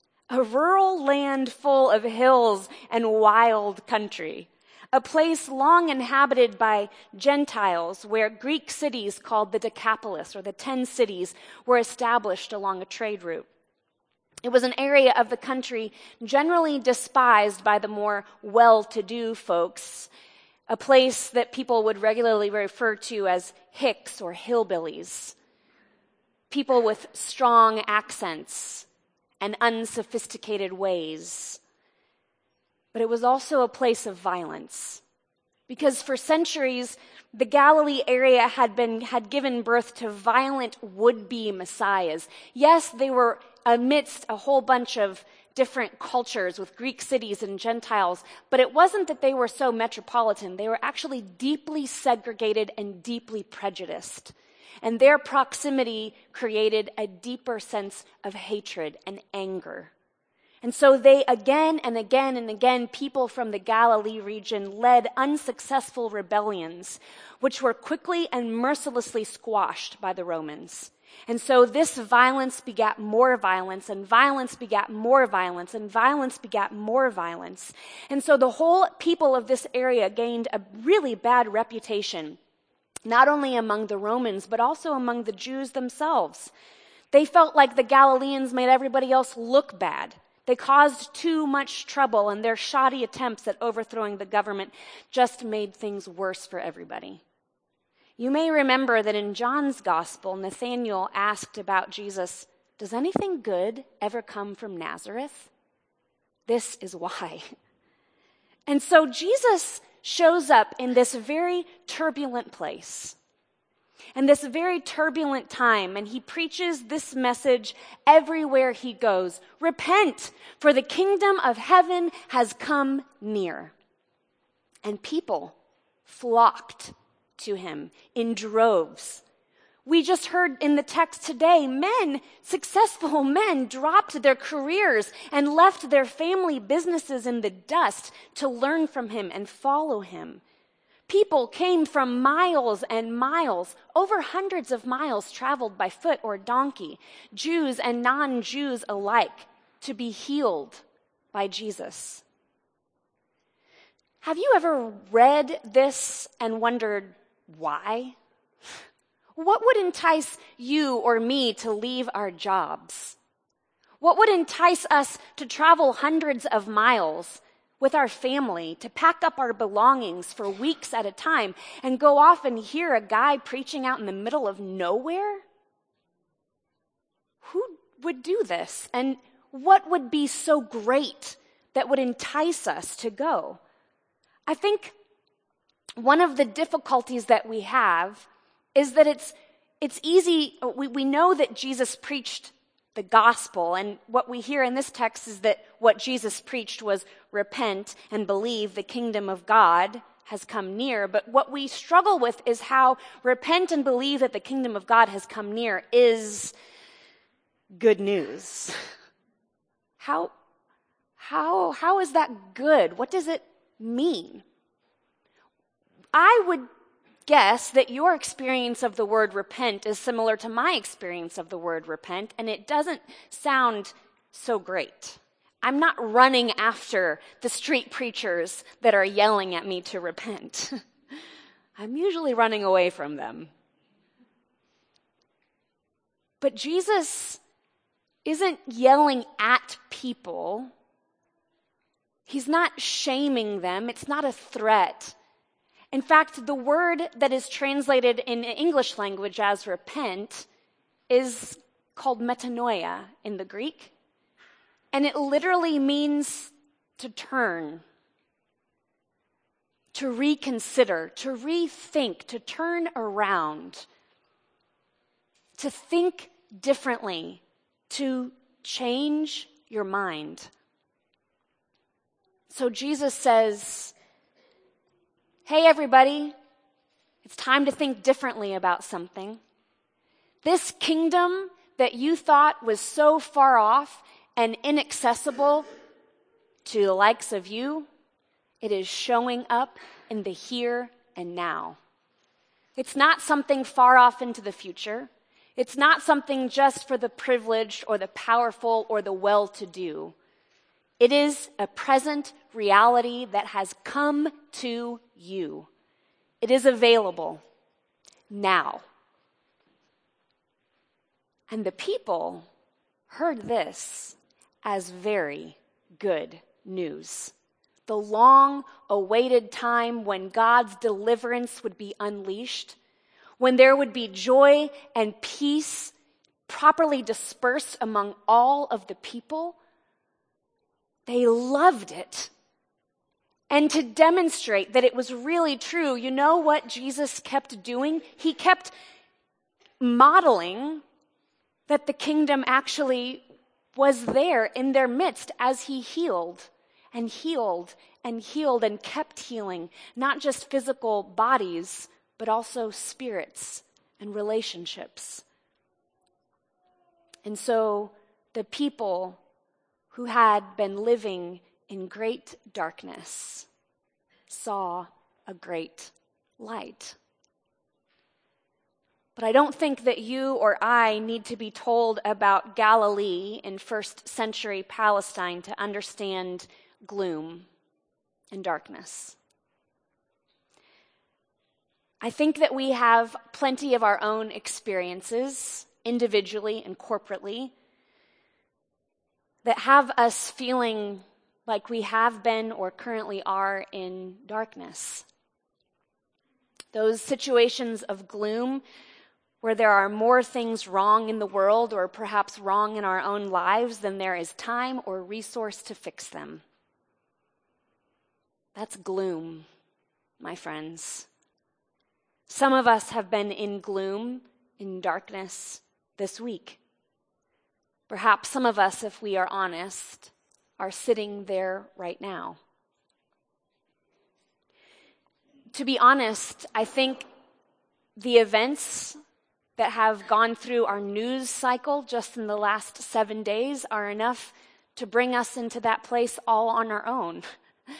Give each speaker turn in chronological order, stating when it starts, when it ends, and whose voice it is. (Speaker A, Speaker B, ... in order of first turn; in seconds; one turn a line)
Speaker A: 0.3-13.5
Speaker A: 14.4-20.1
Speaker A: 20.7-25.4
Speaker A: 26.5-28.9
Speaker A: 29.4-31.6
Speaker A: 32.9-35.0
Speaker A: 35.7-59.9
Speaker A: 60.6-82.4
Speaker A: 83.0-86.5
Speaker A: 87.1-97.2
Speaker A: 98.2-105.5
Speaker A: 106.5-107.4
Speaker A: 108.7-113.2
Speaker A: 114.2-123.7
Speaker A: 124.8-125.5
Speaker A: 126.1-129.2
Speaker A: 129.8-140.4
Speaker A: 141.1-152.2
Speaker A: 154.2-158.2
Speaker A: 159.3-163.2
Speaker A: 164.0-175.4
Speaker A: 177.4-183.6
Speaker A: 184.5-184.9
Speaker A: 186.0-206.5
Speaker A: 207.7-208.7
Speaker A: 210.0-210.3
Speaker A: 211.2-214.4
Speaker A: 216.1-216.7
Speaker A: 217.2-230.8
Speaker A: 231.8-233.5
Speaker A: 236.4-237.4
Speaker A: 238.2-240.7
Speaker A: 242.3-245.1
Speaker A: 245.9-250.5
Speaker A: 251.1-253.9
Speaker A: 254.9-257.8
Speaker A: 259.9-263.9
Speaker A: 265.6-270.5
Speaker A: 272.5-273.9
Speaker A: 275.4-276.3
Speaker A: 277.2-279.4
Speaker A: 280.4-285.6
Speaker A: 286.6-287.9
Speaker A: 288.6-291.8
Speaker A: 292.8-300.1
Speaker A: 301.0-305.7
Speaker A: 306.4-307.4
Speaker A: 308.3-308.8
Speaker A: 311.5-312.5
Speaker A: 313.1-317.3
Speaker A: 317.9-322.8
Speaker A: 323.4-325.9
Speaker A: 326.5-329.6
Speaker A: 331.1-332.3
Speaker A: 333.5-338.7
Speaker A: 339.8-340.8
Speaker A: 341.7-343.2
Speaker A: 343.7-355.2
Speaker A: 357.2-359.2
Speaker A: 359.9-363.5
Speaker A: 364.3-366.9
Speaker A: 369.1-377.5
Speaker A: 378.3-379.2
Speaker A: 382.0-387.5
Speaker A: 389.4-395.1
Speaker A: 396.7-398.6
Speaker A: 399.4-406.4
Speaker A: 408.5-409.5
Speaker A: 410.2-411.1
Speaker A: 412.3-416.6
Speaker A: 417.9-422.4
Speaker A: 425.5-427.1
Speaker A: 427.9-428.9
Speaker A: 429.6-437.2